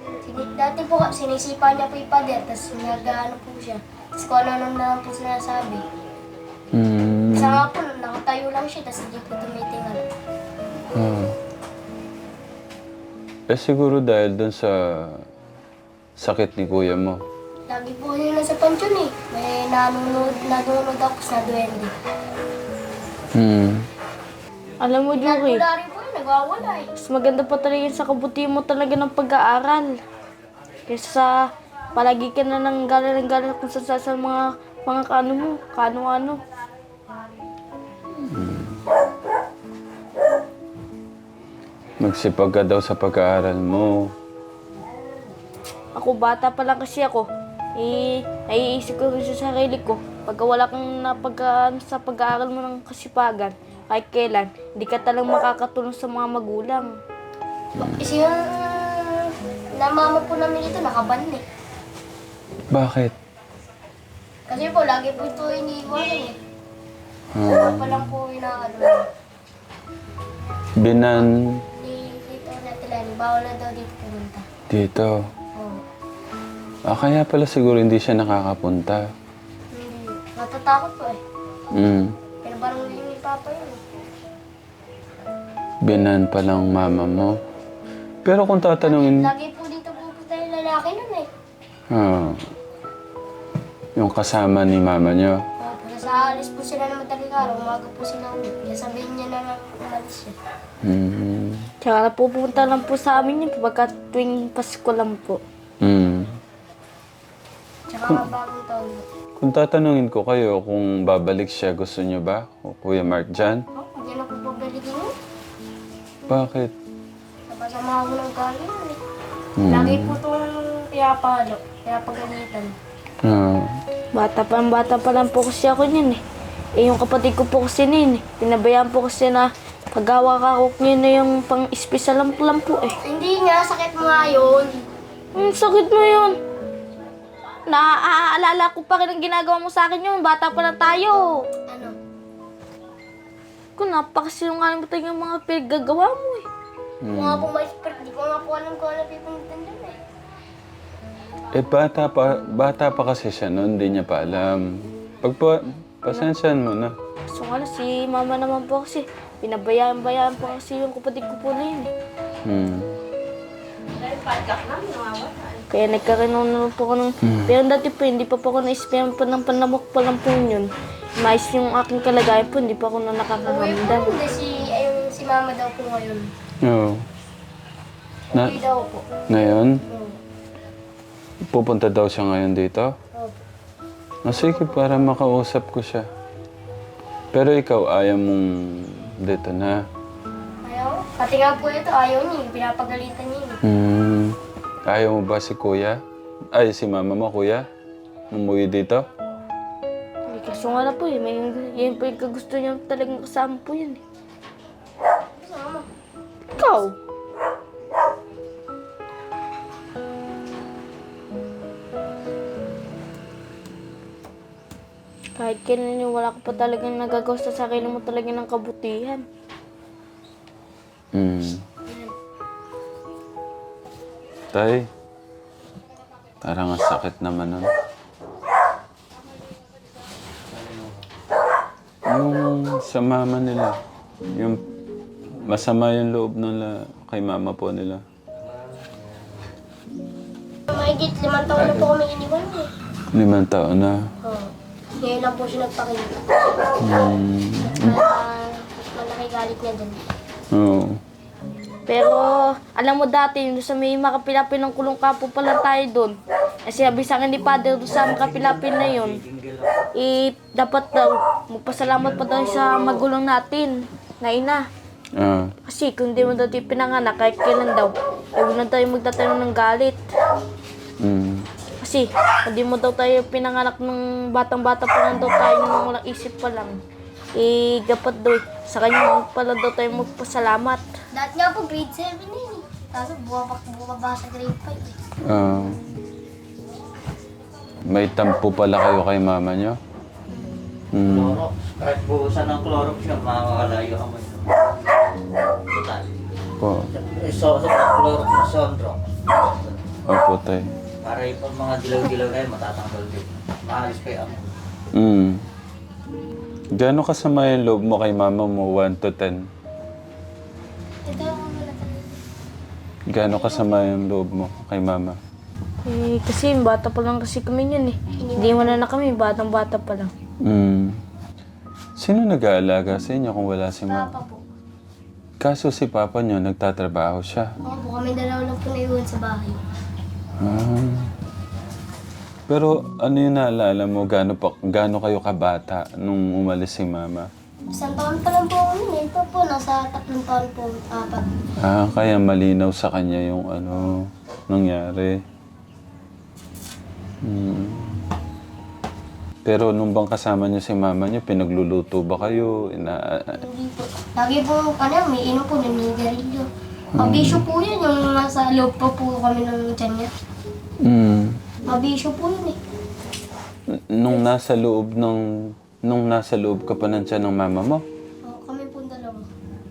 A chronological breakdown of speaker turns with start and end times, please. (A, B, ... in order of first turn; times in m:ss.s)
0:00.2-0:05.8 A
0:06.7-0:07.7 B
0:07.3-0:10.0 A
0:10.9-0:11.3 B
0:13.5-0:15.2 B
0:16.2-0:17.2 B
0:17.7-0:21.9 A
0:23.3-0:23.8 B
0:24.8-0:25.6 C
0:25.1-0:26.9 A
0:27.0-0:30.0 C
0:30.9-0:31.4 C
0:31.9-0:36.4 C
0:38.2-0:38.8 B
0:42.0-0:44.1 B
0:45.9-0:56.9 C
0:57.7-0:58.1 B
0:57.8-1:01.4 A
1:02.7-1:03.1 B
1:04.5-1:06.4 A
1:07.3-1:08.1 B
1:07.4-1:09.0 A
1:10.8-1:11.6 B
1:11.8-1:14.5 A
1:14.7-1:15.2 B
1:16.8-1:19.1 B
1:19.7-1:21.2 A
1:21.7-1:22.2 B
1:22.4-1:23.8 A
1:25.8-1:27.4 B
1:28.2-1:29.3 B
1:28.8-1:31.3 A
1:31.9-1:32.4 B
1:34.0-1:35.4 B
1:35.6-1:40.4 A
1:40.8-1:41.7 B
1:41.8-1:45.4 C
1:45.8-1:46.4 B
1:47.9-1:49.0 A
1:48.0-1:48.3 B
1:49.4-1:53.6 B
1:53.7-1:55.1 A
1:56.3-1:56.7 B
1:57.5-1:59.0 A
1:59.6-2:00.2 B
1:59.7-2:02.7 A
2:03.2-2:03.7 B
2:04.1-2:06.2 C
2:06.8-2:13.0 C
2:13.0-2:14.9 A
2:15.3-2:16.4 C
2:17.7-2:21.4 C
2:21.7-2:21.9 A
2:23.8-2:26.4 C
2:27.0-2:27.5 B
2:27.1-2:30.0 A
2:31.5-2:36.9 B
2:37.3-2:41.9 C
2:42.4-2:42.9 B
2:45.7-2:54.2 C
2:47.2-2:47.5 B
2:53.4-2:56.3 A
2:56.6-2:57.0 B
2:58.3-2:59.0 A
2:58.3-2:58.6 B
2:59.3-2:59.8 B
2:59.9-3:00.2 A
3:01.5-3:02.9 B
3:04.2-3:06.1 B
3:04.3-3:04.8 A
3:07.3-3:09.8 B
3:10.6-3:13.6 A
3:13.6-3:16.0 B
3:16.5-3:17.7 B
3:18.3-3:19.0 B
3:20.3-3:24.0 C
3:25.4-3:25.9 A
3:26.5-3:26.8 A
3:26.6-3:26.9 C
3:35.4-3:39.2 C
3:41.1-3:41.6 B
3:44.5-3:44.9 B
3:46.4-3:47.7 B
3:50.5-3:51.1 D
3:52.1-3:53.8 B
3:54.3-3:54.6 B
3:55.4-3:58.0 B
3:58.4-3:59.6 D
4:00.7-4:02.7 A
4:01.5-4:01.9 D
4:03.1-4:04.1 B
4:04.2-4:06.3 A
4:06.8-4:08.0 B
4:07.6-4:10.0 A
4:10.5-4:11.0 B
4:11.9-4:19.2 C
4:17.9-4:19.9 D
4:20.0-4:24.6 C
4:21.7-4:23.0 D
4:25.2-4:25.5 B
4:25.7-4:30.0 C
4:31.0-4:31.4 B
4:31.8-4:36.8 C
4:37.4-4:40.8 C
4:41.1-4:45.0 A
4:45.2-4:45.8 B
4:47.8-4:49.8 B
4:50.9-4:51.4 B
4:51.0-4:55.0 D
4:55.7-4:56.2 D
4:56.6-4:56.9 B
4:56.9-4:59.8 D
5:00.1-5:00.6 B
5:01.0-5:04.5 D
5:04.9-5:05.4 B
5:06.7-5:09.4 B
5:11.0-5:12.2 A
5:13.1-5:15.2 B
5:13.3-5:13.8 A
5:15.8-5:20.1 C
5:18.2-5:18.8 A
5:20.4-5:21.0 B
5:22.0-5:24.1 B
5:23.8-5:24.4 A
5:25.4-5:27.5 B
5:27.6-5:29.6 A
5:30.4-5:31.1 B
5:32.5-5:37.3 B
5:37.7-5:41.2 A
5:41.6-5:45.2 B
5:47.2-5:48.0 B
5:49.4-5:53.4 B
5:53.3-6:00.1 A
5:56.9-5:57.5 B
6:00.8-6:01.4 B
6:01.6-6:02.6 A
6:03.7-6:07.8 B
6:08.2-6:09.3 A